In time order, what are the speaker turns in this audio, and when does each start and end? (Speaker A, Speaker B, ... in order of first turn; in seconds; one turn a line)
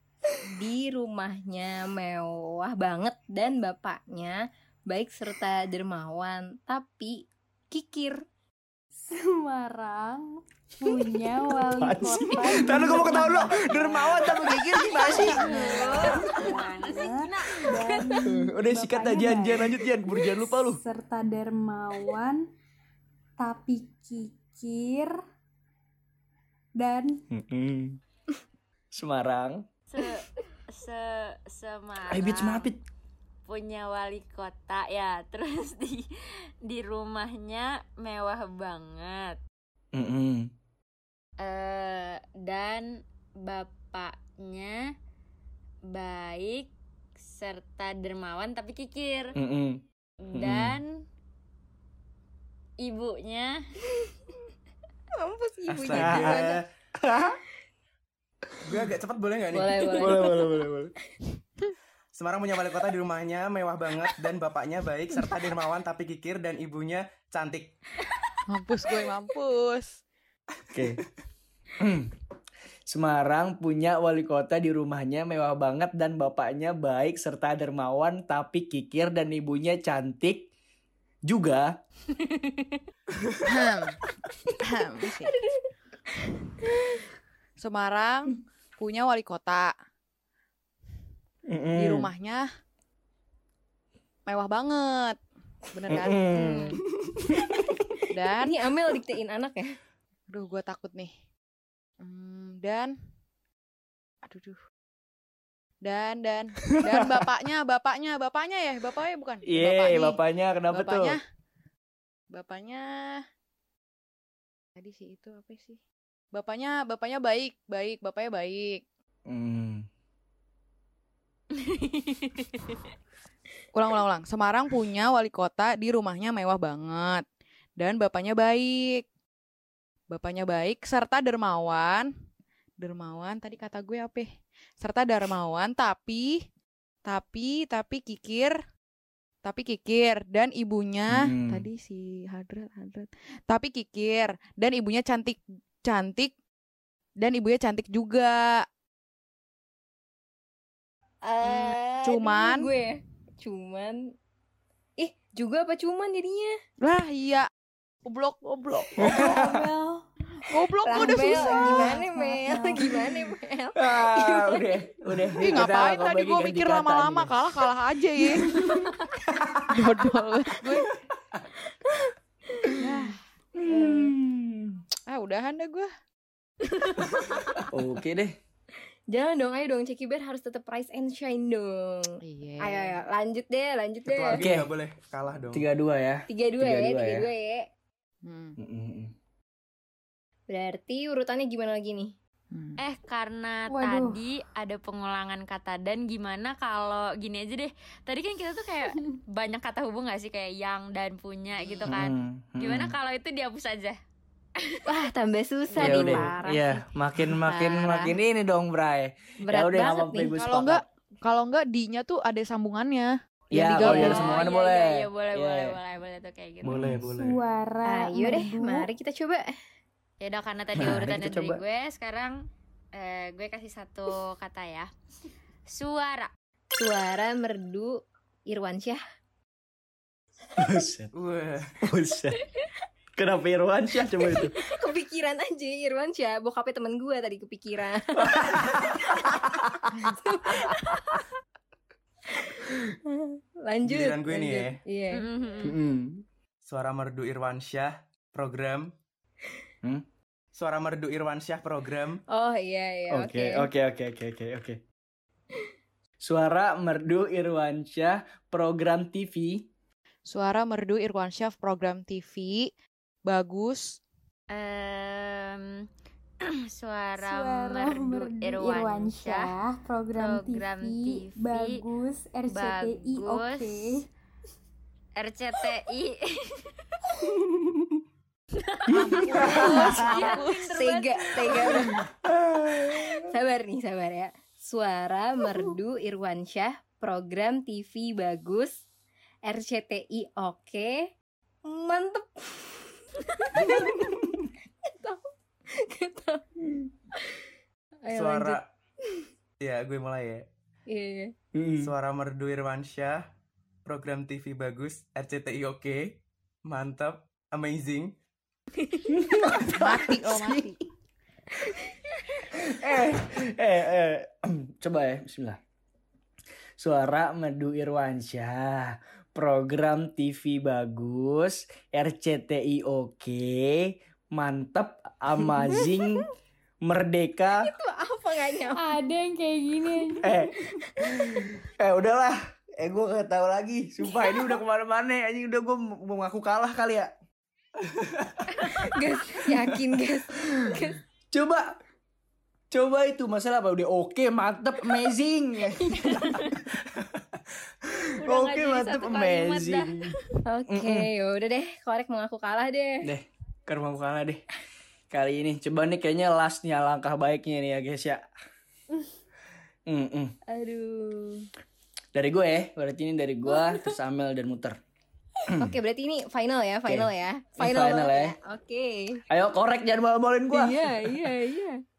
Speaker A: 0.4-8.2
Speaker B: 9.1-14.2
Speaker C: 11.5-16.1
Speaker D: 15.0-18.3
Speaker B: 15.1-22.5
Speaker C: 18.2-20.8
Speaker B: 23.4-25.1
Speaker B: 26.8-27.2
Speaker C: 27.3-28.0
Speaker C: 28.9-29.7
Speaker D: 29.9-32.7
Speaker C: 32.1-32.8
Speaker D: 33.5-36.1
Speaker D: 36.6-39.4
Speaker C: 39.9-40.5
Speaker D: 41.4-44.9
Speaker D: 45.9-49.3
Speaker C: 49.3-49.8
Speaker D: 50.2-51.0
Speaker C: 50.3-50.8
Speaker D: 52.8-53.6
Speaker A: 55.1-56.6
Speaker E: 55.7-56.5
Speaker C: 55.9-57.4
Speaker E: 58.6-60.1
Speaker A: 59.5-60.5
Speaker C: 60.0-60.9
Speaker E: 62.1-67.8
Speaker F: 68.5-70.0
Speaker C: 70.7-71.0
Speaker C: 71.8-72.1
Speaker C: 72.9-80.5
Speaker C: 81.2-81.8
Speaker D: 82.2-82.6
Speaker F: 83.4-84.0
Speaker F: 84.6-85.4
Speaker F: 87.6-89.7
Speaker C: 91.5-92.1
Speaker F: 91.7-92.5
Speaker F: 94.3-95.2
Speaker F: 95.7-96.5
Speaker C: 95.9-96.8
Speaker A: 96.3-96.8
Speaker F: 98.1-98.6
Speaker A: 98.4-99.7
Speaker F: 100.3-101.1
Speaker F: 102.0-102.9
Speaker F: 104.2-104.6
Speaker F: 105.8-110.2
Speaker C: 106.8-107.2
Speaker C: 109.4-111.2
Speaker F: 110.7-111.2
Speaker F: 112.3-113.2
Speaker F: 114.8-115.8
Speaker F: 116.3-118.8
Speaker C: 119.3-119.8
Speaker D: 121.5-122.6
Speaker F: 123.7-127.2
Speaker F: 127.8-129.0
Speaker F: 130.1-132.1
Speaker F: 132.8-136.4
Speaker F: 137.0-138.6
Speaker F: 139.4-146.3
Speaker C: 141.1-141.7
Speaker F: 147.2-148.7
Speaker A: 151.2-154.1
Speaker F: 152.0-152.7
Speaker A: 155.0-156.6
Speaker F: 156.8-157.5
Speaker F: 158.0-159.4
Speaker C: 159.0-159.7
Speaker B: 159.0-160.0
Speaker F: 160.5-162.1
Speaker A: 160.8-164.8
Speaker B: 160.9-163.1
Speaker C: 163.8-167.3
Speaker F: 165.4-168.6
Speaker C: 168.4-170.0
Speaker F: 169.7-170.9
Speaker A: 172.6-172.8
Speaker F: 172.8-173.2
Speaker C: 173.6-174.8
Speaker F: 175.1-175.9
Speaker C: 177.7-178.3
Speaker A: 179.1-184.4
Speaker F: 182.2-183.0
Speaker E: 184.1-185.6
Speaker C: 184.3-184.7
Speaker C: 185.5-187.3
Speaker A: 186.3-187.7
Speaker F: 188.2-188.6
Speaker C: 188.6-189.1
Speaker A: 190.5-192.1
Speaker F: 192.5-192.8
Speaker D: 192.8-204.0
Speaker B: 193.7-194.2
Speaker C: 201.8-202.9
Speaker A: 204.8-206.8
Speaker C: 205.8-210.8
Speaker A: 207.5-208.1
Speaker A: 209.4-210.3
Speaker F: 210.3-214.4
Speaker C: 213.5-215.8
Speaker D: 213.8-216.9
Speaker C: 216.6-217.3
Speaker E: 216.8-217.1
Speaker B: 217.0-218.9
Speaker A: 217.8-219.5
Speaker D: 220.2-224.9
Speaker C: 220.8-221.6
Speaker D: 225.7-226.3
Speaker A: 226.7-229.0
Speaker C: 230.6-231.1
Speaker E: 231.1-231.8
Speaker C: 231.8-232.4
Speaker C: 233.2-234.5
Speaker A: 234.3-241.2
Speaker C: 238.1-240.7
Speaker A: 242.3-245.3
Speaker E: 243.8-244.8
Speaker D: 245.1-245.8
Speaker C: 245.6-246.2
Speaker E: 246.6-248.9
Speaker E: 250.5-252.2
Speaker A: 252.3-253.7
Speaker C: 253.1-254.8
Speaker C: 256.2-259.7
Speaker F: 260.2-262.7
Speaker F: 263.2-264.0
Speaker D: 264.5-265.9
Speaker D: 266.4-269.5
Speaker B: 267.2-274.1
Speaker D: 270.1-271.8
Speaker D: 272.5-274.0
Speaker D: 275.2-276.7
Speaker D: 278.6-281.9
Speaker F: 278.9-280.5
Speaker C: 279.0-280.2
Speaker A: 280.1-282.0
Speaker C: 281.9-283.3
Speaker A: 282.6-288.8
Speaker A: 289.4-291.1
Speaker A: 291.6-294.3
Speaker A: 294.8-296.4
Speaker A: 298.1-298.6
Speaker E: 298.1-298.6
Speaker E: 299.6-300.4
Speaker A: 300.9-301.3
Speaker C: 301.5-301.9
Speaker E: 301.8-303.2
Speaker E: 303.8-308.1
Speaker C: 309.1-310.7
Speaker F: 309.6-310.8
Speaker C: 312.5-315.6
Speaker C: 316.8-326.2
Speaker A: 325.7-326.0
Speaker C: 326.8-327.7
Speaker A: 327.6-328.9
Speaker B: 328.7-330.4
Speaker C: 330.2-337.1
Speaker A: 330.7-331.3
Speaker A: 334.1-334.5
Speaker A: 338.5-341.0
Speaker C: 339.5-339.8
Speaker C: 341.3-341.8
Speaker C: 342.7-350.1
Speaker A: 345.9-346.3
Speaker D: 348.2-349.9
Speaker A: 350.4-353.1
Speaker C: 350.7-351.1
Speaker C: 353.0-354.4
Speaker C: 355.1-358.2
Speaker C: 359.9-360.4
Speaker A: 360.5-361.5
Speaker C: 362.1-364.8
Speaker A: 365.6-369.2
Speaker C: 366.9-368.3
Speaker C: 369.3-371.1
Speaker A: 370.5-371.8